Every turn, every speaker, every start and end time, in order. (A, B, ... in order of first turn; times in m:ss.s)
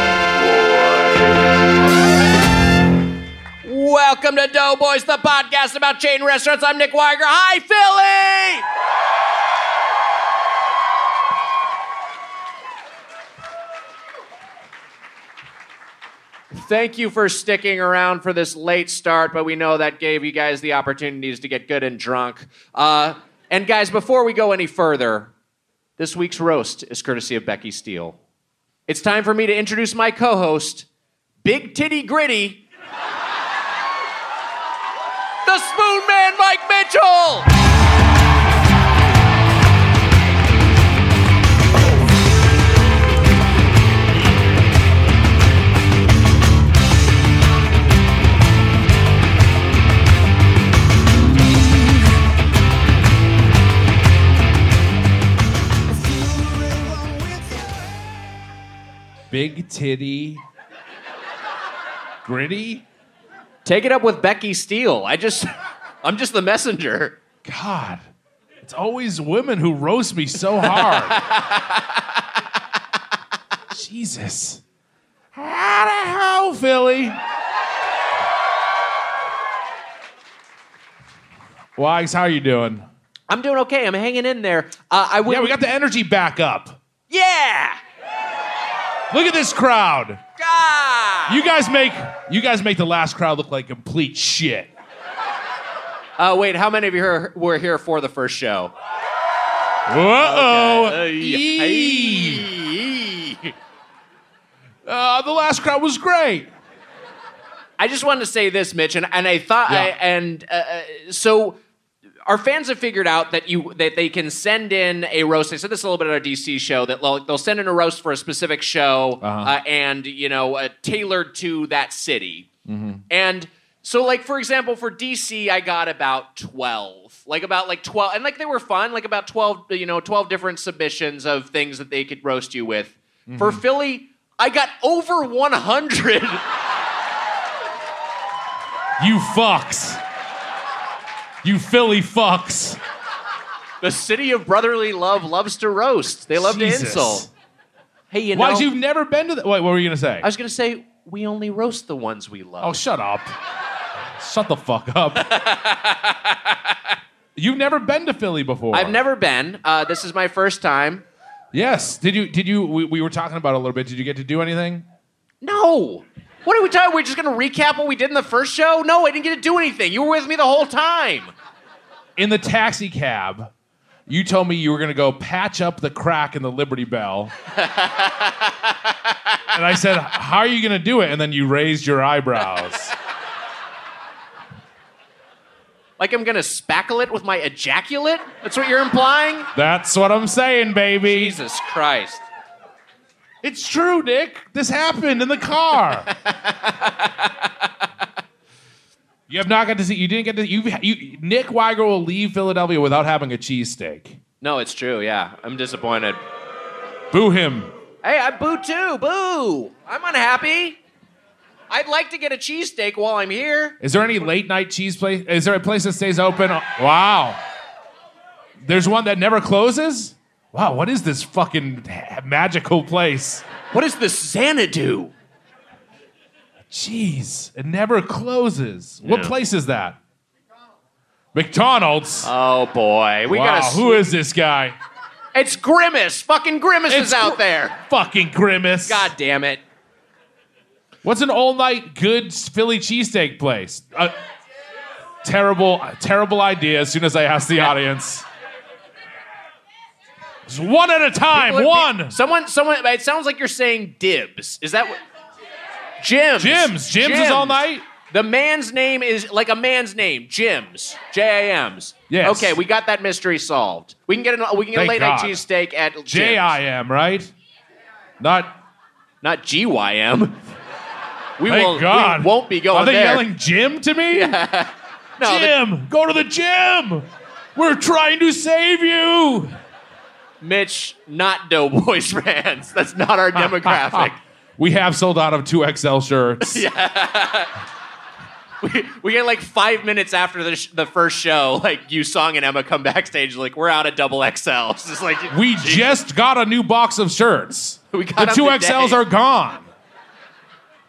0:03.6-0:08.6 A
0:16.5-0:25.3 A
0:26.0-0:28.2 A
0:28.9-0:30.9 A
0:31.4-0:32.6 A
0:35.4-0:37.5 A
0:59.3-1:00.4 B
1:02.2-1:02.8 B
1:03.6-1:07.2 A
1:07.4-1:08.0 B
1:08.6-1:11.2 B
1:10.6-1:12.0 A
1:13.7-1:14.6 B
1:15.3-1:17.2 B
1:21.8-1:22.9 B
1:23.3-1:25.6 A
1:25.3-1:26.8 B
1:27.1-1:27.8 A
1:29.1-1:30.2 B
1:30.4-1:31.4 A
1:31.3-1:34.7 B
1:36.2-1:38.7 A
1:39.9-1:42.5 B
1:40.2-1:43.5 A
1:44.9-1:46.5 B
1:47.8-1:51.6 A
1:49.7-1:49.9 B
1:52.3-2:02.5 A
1:59.2-1:59.5 B
2:02.7-2:03.0 B
2:03.1-2:16.4 A
2:13.3-2:13.6 B
2:19.0-2:20.0 B
2:21.4-2:22.8 B
2:23.8-2:27.3 A
2:26.4-2:27.3 B
2:28.1-2:28.7 A
2:28.3-2:30.3 B
2:30.2-2:32.8 A
2:32.6-2:33.3 B
2:34.2-2:35.3 B
2:35.2-2:36.8 A
2:37.4-2:39.0 B
2:38.7-2:41.0 A
2:41.5-2:44.9 B
2:45.4-2:51.3 A
2:52.2-2:53.5 B
2:54.1-2:57.3 B
2:57.6-2:58.9 A
2:59.5-3:02.9 B
3:06.0-3:09.5 A
3:09.6-3:11.4 B
3:11.1-3:12.3 A
3:13.4-3:16.1 B
3:16.1-3:17.7 A
3:19.3-3:24.2 B
3:24.4-3:26.2 A
3:27.1-3:27.7 B
3:28.0-3:30.8 A
3:31.7-3:33.8 A
3:33.8-3:37.4 B
3:38.6-3:43.4 B
3:43.7-3:45.1 A
3:46.7-3:50.0 B
3:49.0-3:49.3 A
3:51.3-3:52.3 B
3:52.2-3:54.0 A
3:53.3-3:54.8 B
3:55.3-3:57.8 A
3:56.9-3:59.1 B
3:58.9-3:59.6 A
4:01.0-4:04.2 B
4:05.2-4:08.3 B
4:10.5-4:12.2 B
4:11.3-4:15.0 A
4:16.0-4:26.6 A
4:16.4-4:17.8 B
4:22.1-4:22.6 B
4:24.7-4:25.4 B
4:26.1-4:27.3 B
4:28.2-4:28.6 B
4:29.2-4:30.4 A
4:31.4-4:33.3 A
4:31.4-4:34.4 B
4:34.1-4:35.6 A
4:35.2-4:39.5 B
4:40.4-4:44.2 A
4:43.6-4:46.6 B
4:46.4-4:47.5 A
4:48.6-4:56.0 A
4:55.3-4:59.7 B
4:57.9-4:59.0 A